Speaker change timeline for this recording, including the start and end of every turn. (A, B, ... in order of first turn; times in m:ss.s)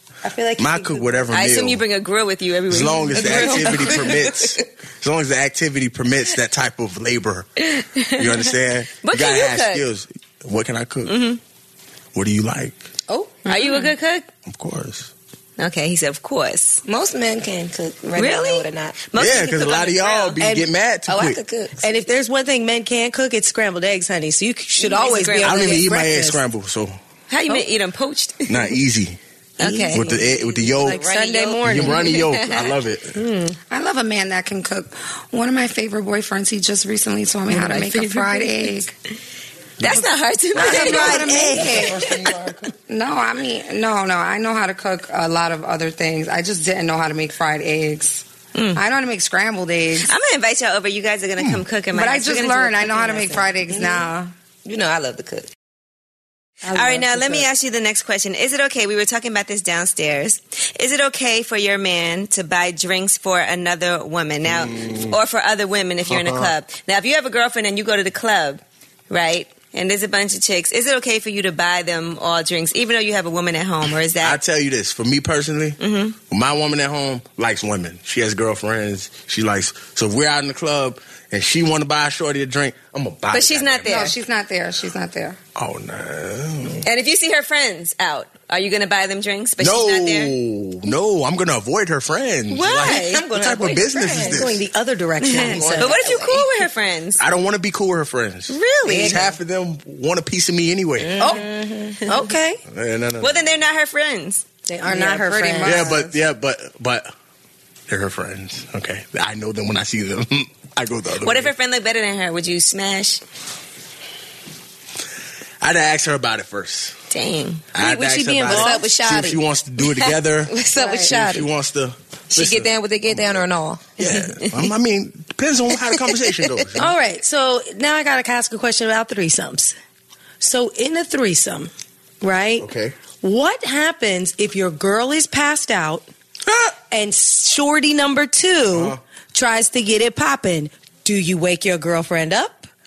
0:00.2-0:01.3 A
0:00.6-0:01.8 B
0:01.3-0:04.5 C
0:02.7-0:07.5 B
0:03.3-0:03.8 A
0:07.6-0:08.5 C
0:08.2-0:11.2 B
0:09.0-0:09.8 C
0:11.0-0:11.4 C
0:12.1-0:12.8 B
0:13.4-0:14.3 C
0:14.4-0:15.1 B
0:15.6-0:16.8 C
0:16.8-0:19.1 D
0:18.2-0:20.4 C
0:19.1-0:21.4 B
0:20.4-0:20.7 A
0:21.1-0:21.8 D
0:21.8-0:26.4 A
0:24.8-0:25.8 C
0:25.4-0:27.0 B
0:27.3-0:28.8 C
0:28.5-0:29.2 B
0:29.6-0:32.7 C
0:29.6-0:31.9 D
0:29.8-0:30.1 A
0:29.9-0:31.0 B
0:30.6-0:32.1 A
0:31.6-0:33.2 B
0:33.7-0:38.9 E
0:37.5-0:38.5 C
0:39.8-0:42.3 C
0:39.8-0:42.7 B
0:40.5-0:42.1 E
0:42.9-0:48.2 E
0:48.5-0:48.8 C
0:48.8-0:50.1 E
0:50.0-0:53.6 C
0:51.9-0:54.3 E
0:53.7-0:54.0 D
0:54.6-0:55.5 D
0:56.7-1:14.4 C
0:56.7-0:57.2 E
1:04.4-1:05.2 B
1:06.1-1:06.5 B
1:14.2-1:24.1 B
1:15.8-1:16.2 C
1:23.3-1:24.2 C
1:23.9-1:25.4 E
1:25.6-1:26.8 B
1:26.8-1:30.3 C
1:29.6-1:34.6 B
1:32.5-1:33.2 C
1:32.9-1:34.4 D
1:34.0-1:36.1 A
1:35.2-1:37.2 C
1:35.4-1:36.1 B
1:35.8-1:36.4 D
1:37.2-1:41.2 B
1:38.5-1:39.3 C
1:38.9-1:39.2 A
1:41.0-1:42.0 D
1:41.2-1:41.5 A
1:42.0-1:42.6 A
1:42.7-1:43.4 B
1:43.2-1:44.4 C
1:44.7-1:45.9 A
1:44.8-1:46.2 E
1:45.6-1:47.1 B
1:47.9-1:51.5 B
1:51.2-1:53.2 C
1:55.6-1:57.0 B
1:57.1-1:57.7 C
1:57.7-2:03.4 B
1:57.8-1:59.4 D
1:57.8-1:58.9 A
2:00.5-2:01.5 D
2:00.8-2:01.1 E
2:02.3-2:03.9 D
2:04.0-2:06.9 B
2:04.0-2:04.7 C
2:06.8-2:09.8 A
2:10.4-2:11.7 A
2:12.2-2:16.1 A
2:12.6-2:13.0 B
2:16.4-2:16.7 B
2:16.9-2:22.7 A
2:18.7-2:19.0 B